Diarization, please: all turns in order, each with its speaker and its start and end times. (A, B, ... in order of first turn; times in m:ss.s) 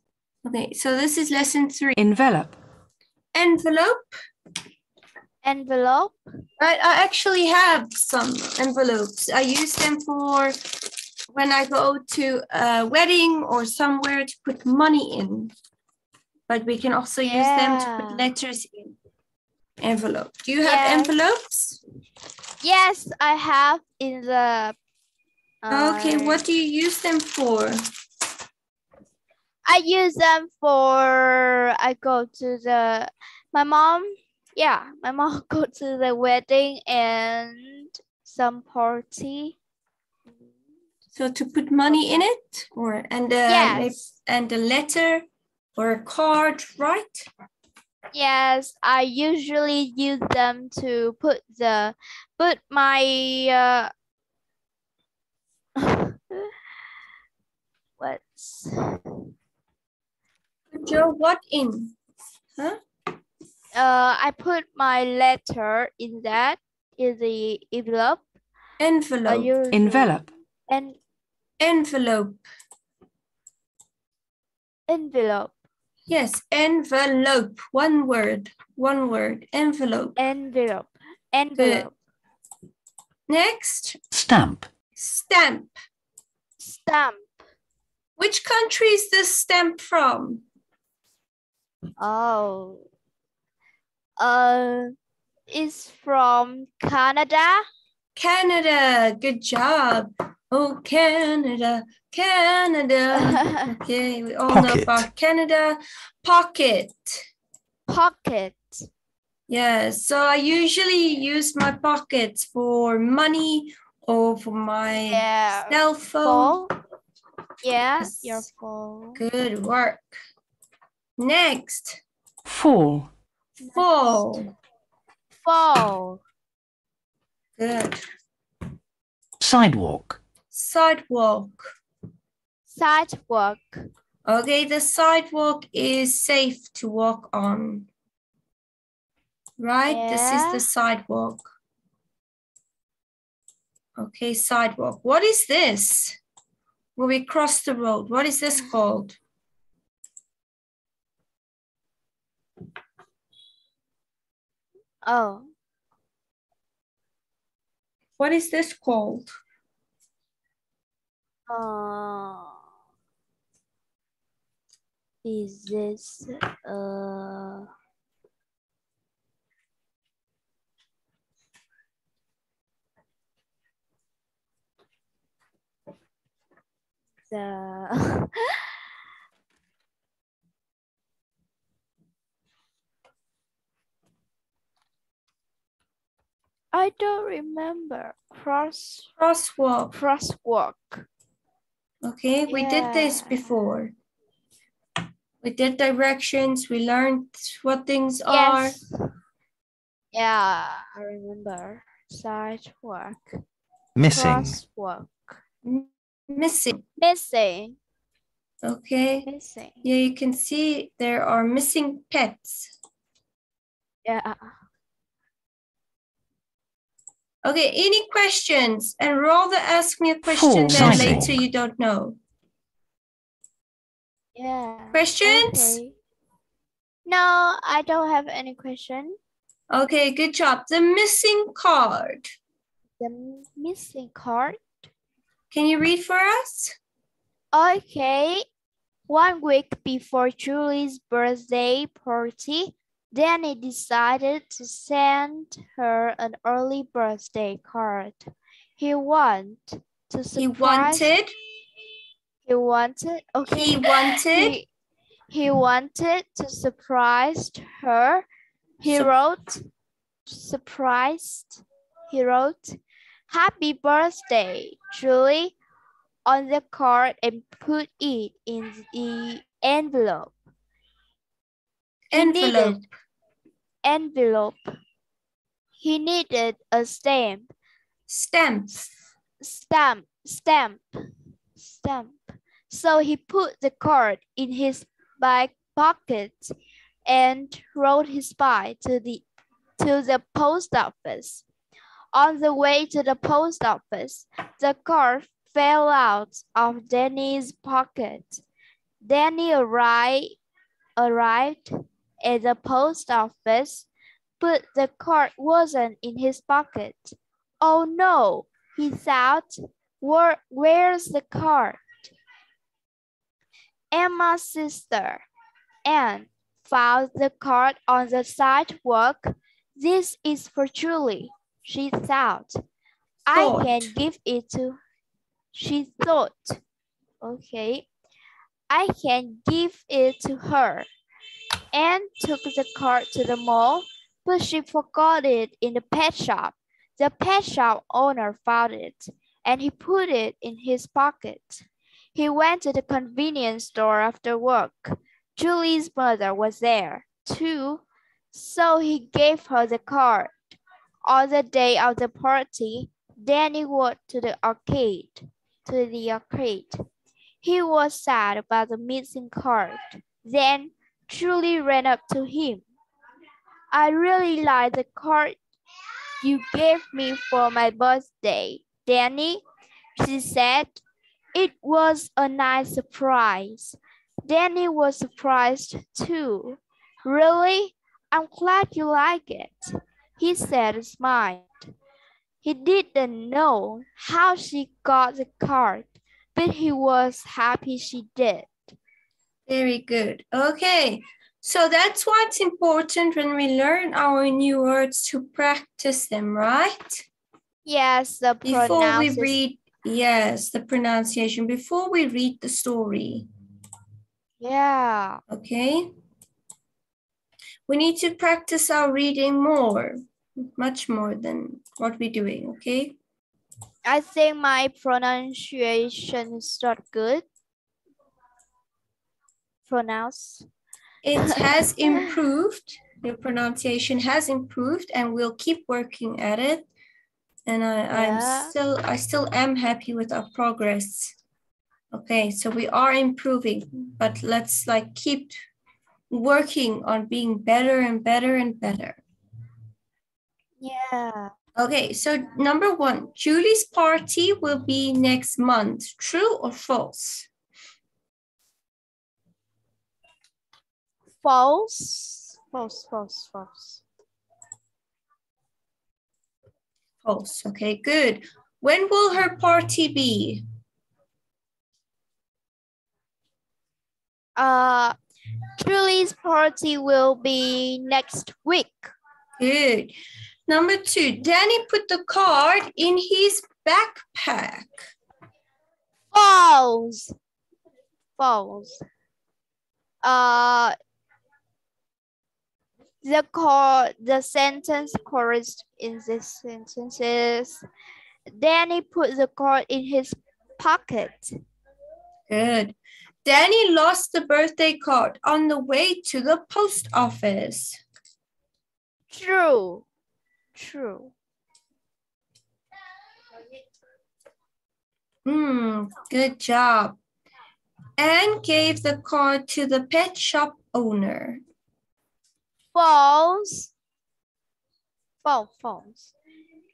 0:00.4-0:02.0 A
0:02.0-0:02.6 B
0:03.3-0:04.1 A
0:05.4-0:06.2 C
0:06.6-0:10.6 A
0:11.3-0:15.5 A
0:16.5-0:19.0 A
0:17.2-0:18.3 C
0:19.8-0:21.8 A
0:20.6-0:21.2 C
0:22.6-0:24.8 C
0:25.6-0:26.4 C
0:25.7-0:27.8 A
0:29.6-0:39.6 C
0:41.1-0:47.3 A
0:41.9-0:42.2 C
0:43.5-0:44.0 C
0:48.1-0:53.9 C
0:55.8-0:56.5 C
0:58.0-0:59.2 C
1:00.7-1:02.0 A
1:03.7-1:08.2 C
1:08.8-1:09.5 A
1:09.3-1:11.0 C
1:09.7-1:10.3 B
1:11.6-1:12.4 A
1:14.9-1:15.5 C
1:16.1-1:20.2 A
1:20.2-1:21.9 C
1:21.6-1:21.9 A
1:23.3-1:24.0 A
1:24.1-1:24.7 B
1:25.0-1:25.7 A
1:26.6-1:27.3 C
1:28.2-1:30.4 A
1:32.0-1:32.8 C
1:34.2-1:35.0 C
1:35.5-1:37.7 C
1:38.2-1:47.2 A
1:43.1-1:43.7 C
1:44.5-1:45.1 B
1:47.9-1:48.9 C
1:49.5-1:56.6 A
1:55.0-1:56.7 C
1:57.6-1:59.2 C
1:58.0-1:58.5 A
1:59.2-2:00.2 A
2:01.2-2:02.0 A
2:02.5-2:03.1 B
2:03.6-2:04.5 C
2:03.7-2:04.5 A
2:05.4-2:06.2 C
2:07.6-2:08.0 A
2:09.4-2:10.2 B
2:10.5-2:11.7 A
2:12.7-2:13.9 C
2:14.3-2:17.9 A
2:19.6-2:21.5 A
2:19.9-2:20.6 C
2:24.0-2:26.2 A
2:27.0-2:29.2 A
2:35.0-2:35.5 C
2:38.2-2:39.3 A
2:41.5-2:42.6 C
2:45.2-2:47.7 C
2:57.3-2:58.8 C
3:06.7-3:09.1 C
3:09.2-3:10.0 A
3:09.9-3:11.1 C
3:12.0-3:13.9 A
3:12.5-3:13.5 C
3:15.4-3:18.8 A
3:18.3-3:18.9 C
3:20.1-3:23.4 C
3:24.0-3:24.6 B
3:24.0-3:25.4 C
3:25.6-3:26.8 A
3:27.0-3:27.8 C
3:28.6-3:29.3 A
3:29.3-3:29.8 C
3:29.8-3:32.7 A
3:34.0-3:34.6 C
3:37.4-3:42.2 A
3:40.4-3:41.3 B
3:44.4-3:46.0 C
3:44.9-3:45.8 A
3:47.1-3:49.2 C
3:49.7-3:52.3 A
3:53.0-3:54.9 C
3:55.5-3:56.8 A
3:57.5-3:58.5 C
3:59.1-4:11.1 C
4:10.4-4:11.3 A
4:12.4-4:14.7 C
4:13.5-4:14.6 A
4:15.3-4:18.3 C
4:18.8-4:19.6 C
4:20.3-4:25.6 C
4:26.3-4:30.3 C
4:32.1-4:32.9 A
4:32.1-4:32.8 C
4:33.8-4:34.7 C
4:35.8-4:37.5 C
4:38.1-4:38.9 A
4:39.4-4:40.9 C
4:41.6-4:49.2 C
4:49.8-4:51.4 C
4:52.1-4:58.4 C
4:59.0-5:00.4 C
5:01.0-5:03.9 C
5:04.4-5:12.1 C
5:13.9-5:15.3 C
5:15.8-5:22.6 C
5:23.3-5:23.9 A
5:23.3-5:24.8 C
5:25.5-5:26.6 C
5:27.2-5:27.9 C
5:28.7-5:30.9 C
5:31.7-5:56.8 C
5:57.4-6:02.6 C
6:03.7-6:05.4 C
6:06.2-6:09.4 C
6:10.0-6:10.8 C
6:11.4-6:21.5 C
6:22.4-6:28.8 C
6:29.5-6:37.1 A
6:37.6-6:39.4 C
6:38.4-6:43.3 A
6:44.4-6:45.2 C
6:45.3-6:45.9 A
6:47.7-6:53.0 A
6:53.8-6:57.2 C
6:59.7-7:00.5 C
7:01.0-7:06.7 A
7:01.2-7:02.2 C
7:07.5-7:11.2 A
7:07.9-7:08.5 C
7:11.9-7:15.3 A
7:16.1-7:19.0 A
7:20.6-7:21.3 C
7:21.6-7:27.3 A
7:31.2-7:33.8 C
7:37.0-7:40.4 A
7:44.4-7:45.0 C
7:45.6-7:48.9 C
7:49.4-7:50.0 A
7:50.5-7:54.7 A
7:56.1-7:57.2 C
7:58.2-7:58.8 C
8:00.0-8:00.8 C
8:03.0-8:07.6 C
8:08.3-8:11.4 C
8:12.3-8:17.8 A
8:19.1-8:19.8 C
8:20.6-8:21.1 C
8:25.3-8:27.0 A
8:28.0-8:31.4 A
8:32.7-8:33.7 C
8:35.2-8:36.1 C